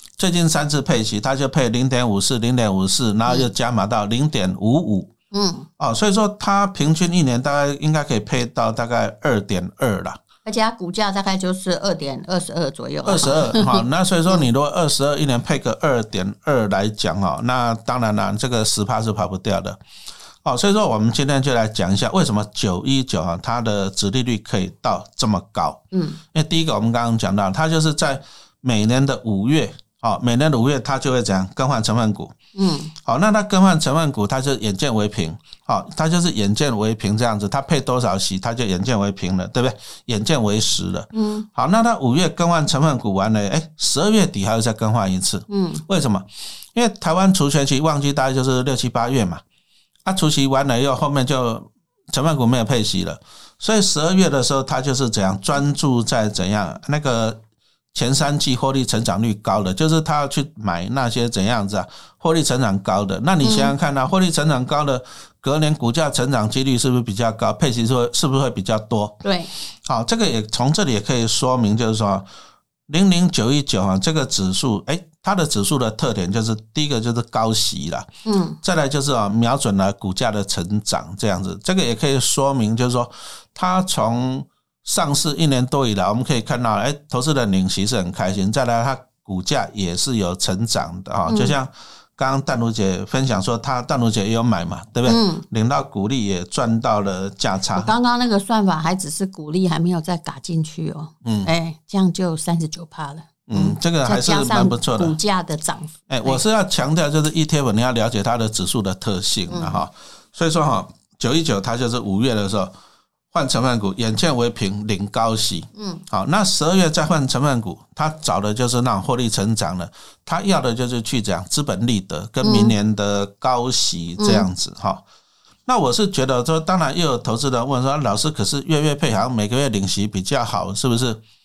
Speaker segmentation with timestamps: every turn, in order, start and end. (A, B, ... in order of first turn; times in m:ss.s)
0:00.2-0:05.1 A
0:05.3-0:05.7 B
0:05.8-0:10.2 A
0:10.4-0:14.5 B
0:13.0-0:19.8 A
0:20.4-0:32.3 A
0:25.9-0:26.2 B
0:32.6-0:32.9 B
0:33.0-0:49.4 A
0:41.1-0:41.5 B
0:45.5-0:45.8 B
0:50.0-0:57.4 A
0:57.9-1:09.2 A
1:03.4-1:03.7 B
1:09.2-1:09.5 B
1:09.9-1:12.3 A
1:12.9-1:18.1 A
1:18.2-1:18.6 B
1:18.6-1:37.9 A
1:31.3-1:31.6 B
1:35.0-1:35.4 B
1:37.7-1:46.4 B
1:41.2-1:41.5 A
1:43.5-1:45.2 A
1:46.1-1:52.7 A
1:49.5-1:49.8 B
1:53.3-2:05.0 A
1:55.8-1:56.0 B
2:02.4-2:02.8 B
2:04.2-2:04.5 B
2:05.7-2:11.2 A